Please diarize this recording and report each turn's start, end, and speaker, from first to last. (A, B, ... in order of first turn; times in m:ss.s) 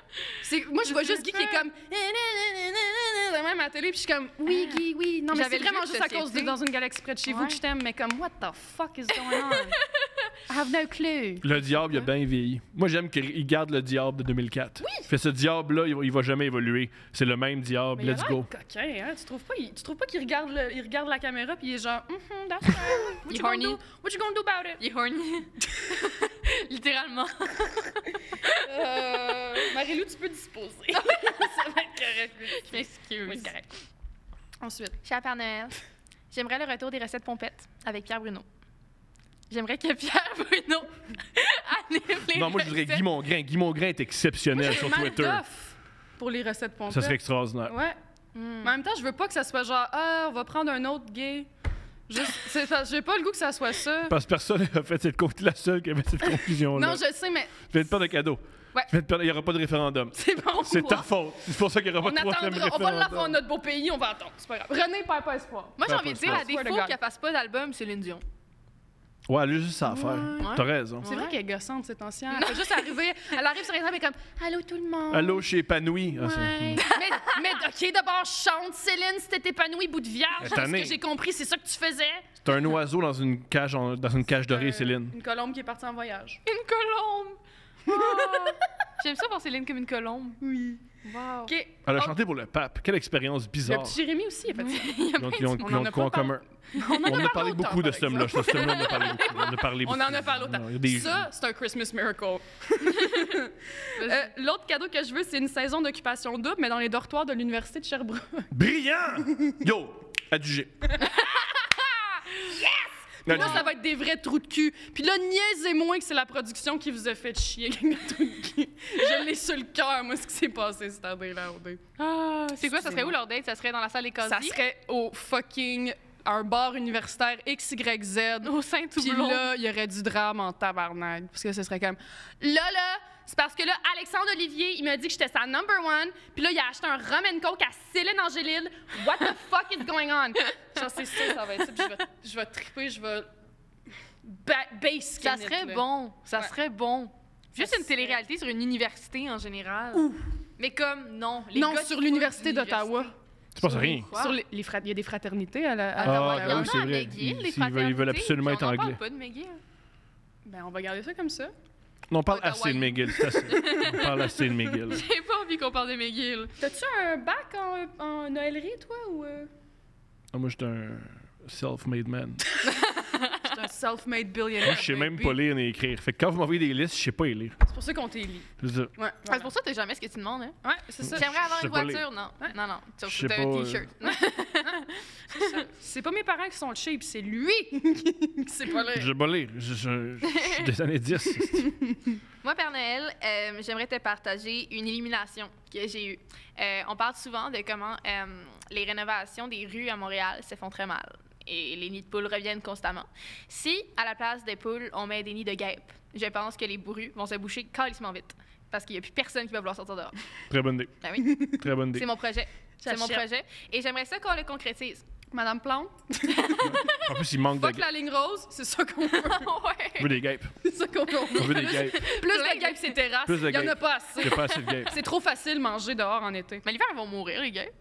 0:00.4-0:09.8 A
0:00.8-0:01.6 B
0:04.5-0:06.5 B
0:07.2-0:07.6 B
0:09.1-0:10.3 B
0:10.5-0:12.1 A
0:11.4-0:18.5 C
0:14.8-0:15.1 A
0:17.9-0:24.8 A
0:23.3-0:23.8 B
0:24.8-0:28.6 B
0:28.6-0:33.7 A
0:30.9-0:31.5 B
0:32.5-0:33.5 B
0:34.6-0:35.0 A
0:35.0-0:35.8 B
0:36.3-0:38.4 B
0:39.5-0:43.0 B
0:42.3-0:45.4 C
0:44.5-0:48.0 A
0:46.9-0:47.7 C
0:48.3-0:48.7 B
0:48.6-0:51.5 A
0:52.1-0:54.2 A
0:54.1-0:57.0 C
0:56.3-0:57.8 A
0:57.7-1:03.4 C
1:00.1-1:01.0 B
1:02.0-1:07.0 A
1:05.8-1:08.2 B
1:05.8-1:06.5 C
1:09.3-1:11.1 C
1:09.8-1:15.4 A
1:10.4-1:11.3 B
1:12.3-1:12.8 B
1:15.1-1:16.8 C
1:16.2-1:22.3 A
1:16.8-1:17.4 B
1:20.4-1:21.0 C
1:22.4-1:25.1 C
1:24.5-1:26.4 A
1:26.4-1:31.5 B
1:27.8-1:28.6 A
1:30.4-1:30.8 A
1:31.5-1:32.2 A
1:31.8-1:34.0 C
1:33.6-1:35.0 A
1:34.6-1:35.8 B
1:35.2-1:36.4 C
1:35.6-1:48.5 A
1:36.8-1:37.3 B
1:37.0-1:41.3 C
1:38.4-1:39.6 B
1:44.0-1:44.3 B
1:48.5-1:50.9 C
1:51.0-1:51.4 A
1:51.1-1:51.6 B
1:52.4-2:01.8 A
1:53.2-1:53.7 C
1:53.3-1:53.7 B
2:02.0-2:04.6 B
2:02.6-2:03.2 A
2:04.2-2:23.3 A
2:08.4-2:09.5 B
2:24.2-2:26.5 A
2:25.2-2:34.3 B
2:27.6-2:28.2 A
2:29.9-2:30.2 A
2:31.5-2:36.8 A
2:33.5-2:34.1 C
2:36.0-2:39.6 B
2:36.0-2:39.0 C
2:40.4-2:41.5 A
2:42.1-2:45.0 C
2:42.3-2:44.1 B
2:43.5-2:44.1 A
2:44.8-2:46.6 B
2:46.6-2:49.5 A
2:50.3-2:52.4 C
2:52.6-2:53.5 B
2:53.4-2:55.4 A
2:54.6-2:57.6 C
2:57.6-2:59.5 A
2:58.6-2:58.9 C
2:59.2-3:00.6 B
3:00.6-3:01.3 A
3:01.1-3:05.6 B
3:01.1-3:02.1 C
3:03.0-3:03.9 C
3:04.0-3:09.1 A
3:08.9-3:11.7 C
3:10.2-3:10.7 B
3:11.5-3:12.2 A
3:12.4-3:30.2 B
3:30.5-3:32.0 C
3:31.0-3:35.0 B
3:32.8-3:33.2 A
3:35.3-3:36.9 A
3:36.3-3:37.0 B
3:36.6-3:37.8 C
3:37.4-3:39.5 A
3:39.1-3:40.1 B
3:40.0-3:40.5 C
3:40.6-3:46.6 A
3:41.2-3:43.0 B
3:41.3-3:42.1 C
3:43.2-3:45.0 C
3:46.6-3:47.7 B